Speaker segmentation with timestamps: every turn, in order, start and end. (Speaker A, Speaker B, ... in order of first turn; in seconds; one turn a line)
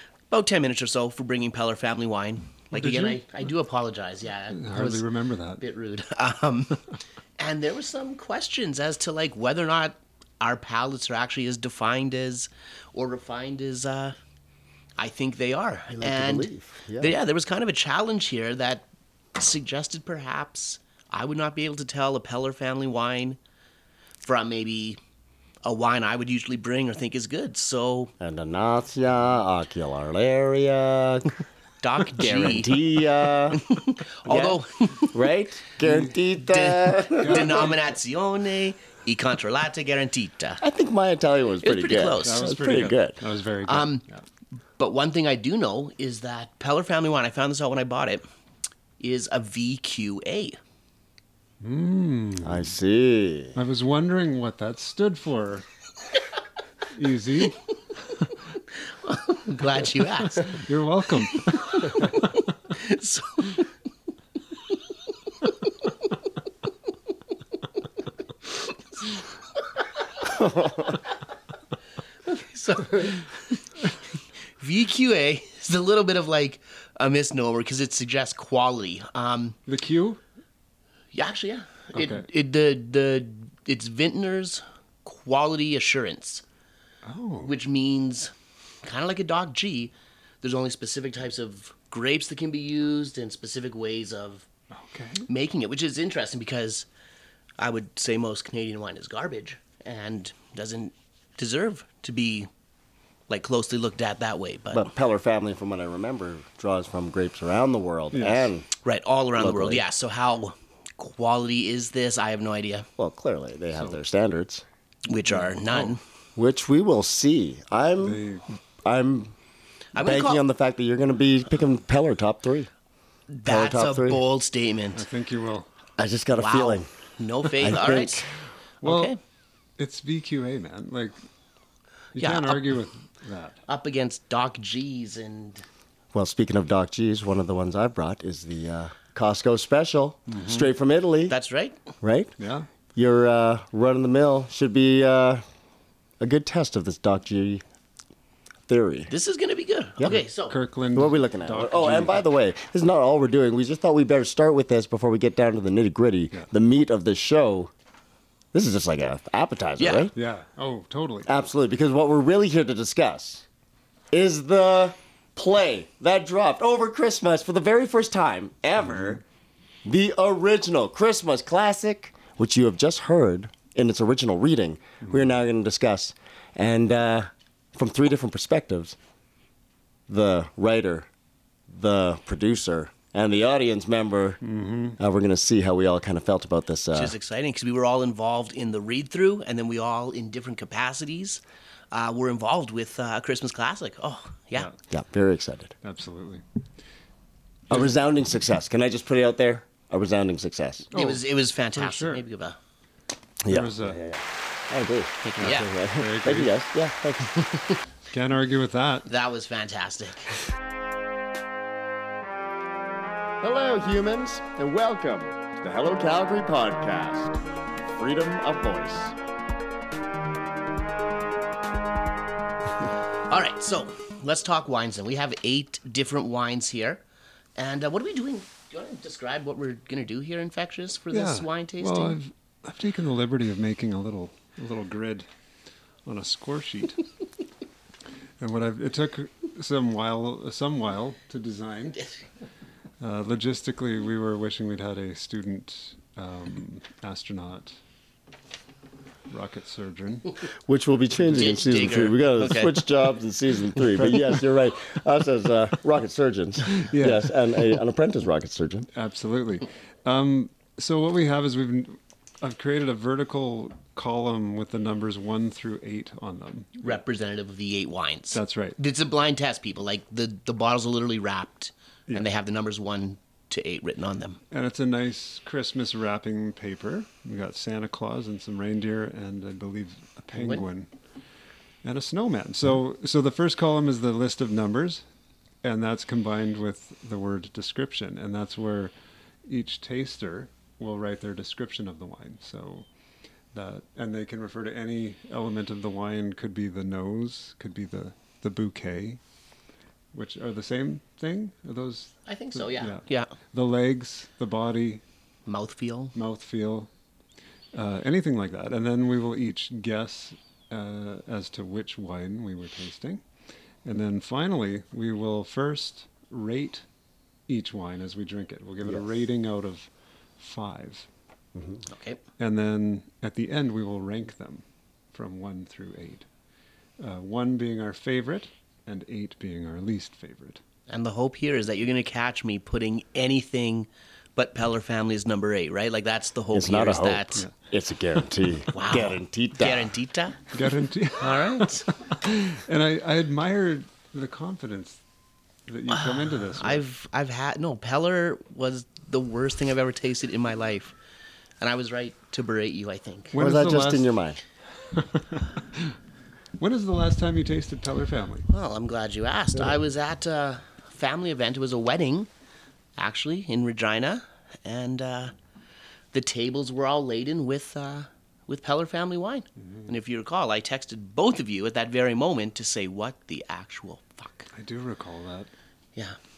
Speaker A: 0.3-5.0
Speaker B: 2.7-3.2
Speaker B: 4.5-5.6
Speaker A: 5.6-6.8
Speaker A: 7.4-14.2
Speaker A: 15.0-23.4
Speaker C: 16.0-17.2
Speaker A: 24.2-25.0
Speaker A: 25.6-28.1
Speaker C: 28.2-31.4
Speaker A: 31.8-32.8
Speaker C: 32.1-33.6
Speaker A: 33.5-35.2
Speaker C: 35.1-37.7
Speaker B: 35.8-36.2
Speaker A: 36.4-40.6
Speaker B: 37.2-37.8
Speaker C: 40.6-43.2
Speaker A: 41.6-42.5
Speaker B: 42.2-44.2
Speaker A: 43.6-44.0
Speaker A: 44.8-48.2
Speaker A: 49.0-50.6
Speaker B: 51.6-52.7
Speaker C: 52.4-53.6
Speaker B: 53.5-55.7
Speaker B: 56.9-57.6
Speaker A: 59.0-60.6
Speaker B: 60.2-62.3
Speaker A: 61.3-63.7
Speaker C: 70.2-71.0
Speaker A: 72.2-73.5
Speaker A: 74.6-79.5
Speaker B: 79.7-80.2
Speaker A: 81.1-86.4
Speaker B: 81.9-82.2
Speaker B: 87.0-87.5
Speaker A: 87.4-88.3
Speaker A: 88.8-94.5
Speaker B: 94.7-95.3
Speaker A: 95.3-96.9
Speaker A: 97.6-102.5
Speaker A: 103.3-104.9
Speaker C: 104.7-108.7
Speaker B: 108.1-108.5
Speaker A: 108.8-112.9
Speaker C: 109.4-109.8
Speaker C: 113.0-114.6
Speaker A: 115.1-116.0
Speaker B: 115.3-115.9
Speaker C: 116.4-118.2
Speaker B: 118.0-118.4
Speaker C: 118.8-119.3
Speaker A: 119.9-120.4
Speaker C: 120.0-122.7
Speaker A: 123.3-125.0
Speaker C: 123.4-124.2
Speaker B: 124.9-125.7
Speaker C: 126.0-126.9
Speaker A: 126.4-128.2
Speaker C: 127.6-128.3
Speaker B: 128.8-129.1
Speaker A: 128.8-129.2
Speaker B: 129.8-131.2
Speaker B: 132.1-133.6
Speaker A: 132.2-132.6
Speaker A: 133.7-135.6
Speaker C: 136.1-141.3
Speaker B: 140.3-140.7
Speaker A: 141.3-141.8
Speaker C: 142.0-142.3
Speaker B: 142.4-142.7
Speaker C: 142.9-145.4
Speaker C: 146.2-147.6
Speaker C: 148.7-149.1
Speaker A: 149.1-150.6
Speaker B: 150.1-152.2
Speaker C: 150.9-157.7
Speaker C: 158.5-160.1
Speaker A: 159.8-160.1
Speaker B: 160.1-161.3
Speaker C: 161.2-163.4
Speaker C: 164.1-169.2
Speaker C: 169.8-178.9
Speaker C: 180.1-181.1
Speaker C: 181.7-184.4
Speaker B: 184.4-185.0
Speaker C: 185.0-187.1
Speaker A: 186.9-194.7
Speaker C: 194.9-195.7
Speaker B: 195.8-196.4
Speaker B: 197.7-198.0
Speaker C: 197.7-200.9
Speaker B: 200.9-202.2
Speaker A: 200.9-202.6
Speaker C: 203.4-207.4
Speaker B: 203.5-204.0
Speaker A: 205.2-205.7
Speaker B: 205.4-206.6
Speaker A: 207.5-207.8
Speaker B: 208.1-209.1
Speaker A: 209.1-210.3
Speaker C: 213.4-219.1
Speaker A: 223.3-227.0
Speaker A: 227.6-232.2
Speaker B: 231.1-235.3
Speaker B: 236.1-237.0
Speaker B: 238.4-242.1
Speaker B: 243.0-247.7
Speaker B: 249.3-250.4
Speaker C: 250.7-258.9
Speaker B: 251.2-251.7
Speaker A: 251.3-252.8
Speaker B: 253.9-254.3
Speaker B: 256.7-257.6
Speaker B: 258.9-267.0
Speaker A: 266.8-274.4
Speaker B: 268.3-268.8
Speaker B: 274.5-280.9
Speaker A: 280.3-280.6
Speaker B: 281.8-285.0
Speaker B: 285.6-288.9
Speaker B: 289.4-292.9
Speaker B: 293.5-299.2
Speaker B: 300.1-305.0
Speaker A: 302.2-303.3
Speaker A: 305.5-306.1
Speaker B: 306.1-306.9
Speaker B: 307.7-313.2
Speaker B: 313.8-316.9
Speaker B: 317.5-321.1
Speaker C: 321.6-321.8
Speaker A: 321.9-322.2
Speaker B: 322.4-326.2
Speaker B: 327.0-330.6
Speaker A: 330.9-337.4
Speaker C: 336.5-339.9
Speaker A: 338.7-340.4
Speaker B: 340.5-345.0
Speaker A: 341.2-341.9
Speaker B: 345.7-346.8
Speaker A: 345.9-350.9
Speaker A: 351.6-353.3
Speaker B: 353.3-354.1
Speaker C: 353.4-354.4
Speaker B: 354.9-355.9
Speaker B: 356.6-358.4
Speaker A: 358.5-362.3
Speaker A: 363.0-365.3
Speaker A: 366.1-374.5
Speaker B: 369.6-369.9
Speaker B: 374.5-375.5